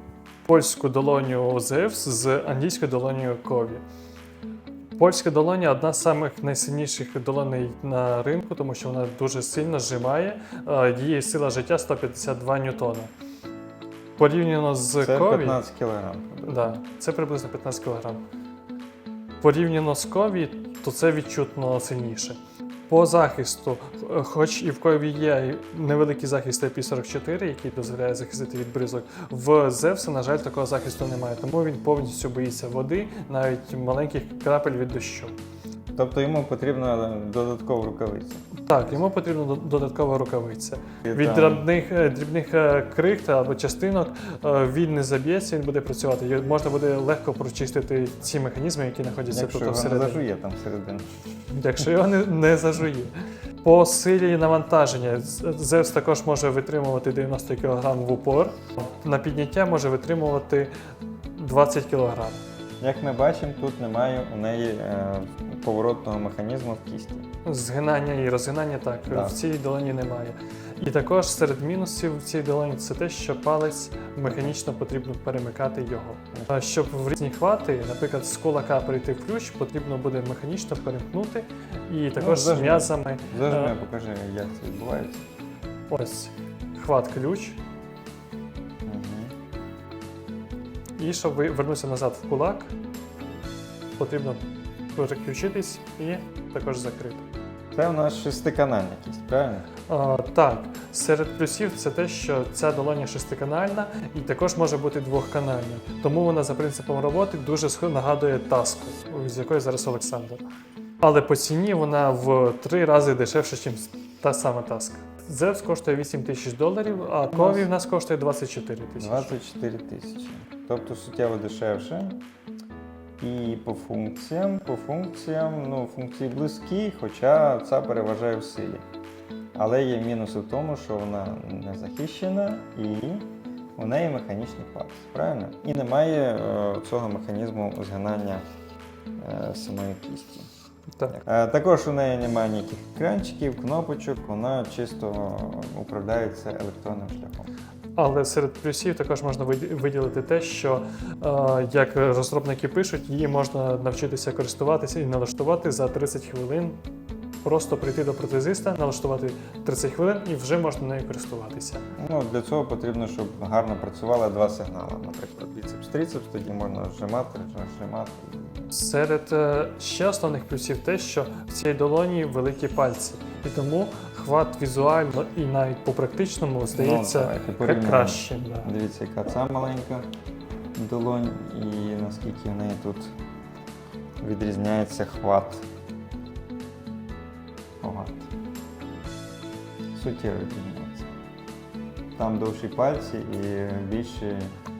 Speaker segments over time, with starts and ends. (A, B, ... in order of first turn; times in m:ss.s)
0:00.4-0:03.8 A
0:05.0-0:13.1 A
0:14.2-0:15.6 A
0:15.0-0:16.7 B
0:16.4-0:18.2 A
0:19.4-0:35.3 A
0:35.9-0:38.8 B
0:38.5-0:50.2 A
0:41.0-0:41.7 B
0:49.3-0:51.1 B
0:51.5-1:00.7 A
1:01.3-1:02.4 A
1:02.8-1:07.2 B
1:07.4-1:23.7 A
1:09.1-1:09.4 B
1:14.2-1:14.5 B
1:22.2-1:25.3 B
1:25.9-1:27.6 A
1:28.8-1:29.3 B
1:31.0-1:32.7 A
1:34.0-1:37.2 A
1:37.7-1:39.7 B
1:39.9-1:50.4 A
1:51.0-1:59.3 A
1:57.3-1:57.7 B
1:59.0-2:02.2 B
2:03.2-2:08.8 B
2:09.5-2:18.4 B
2:19.2-2:20.5 B
2:21.1-2:27.5 B
2:28.0-2:36.8 A
2:37.4-2:41.8 A
2:42.0-2:48.7 B
2:48.7-2:58.7 A
2:56.7-3:00.1 B
3:00.8-3:03.1 B
3:04.2-3:05.6 B
3:07.8-3:08.3 B
3:09.9-3:11.1 B
3:12.2-3:14.5 B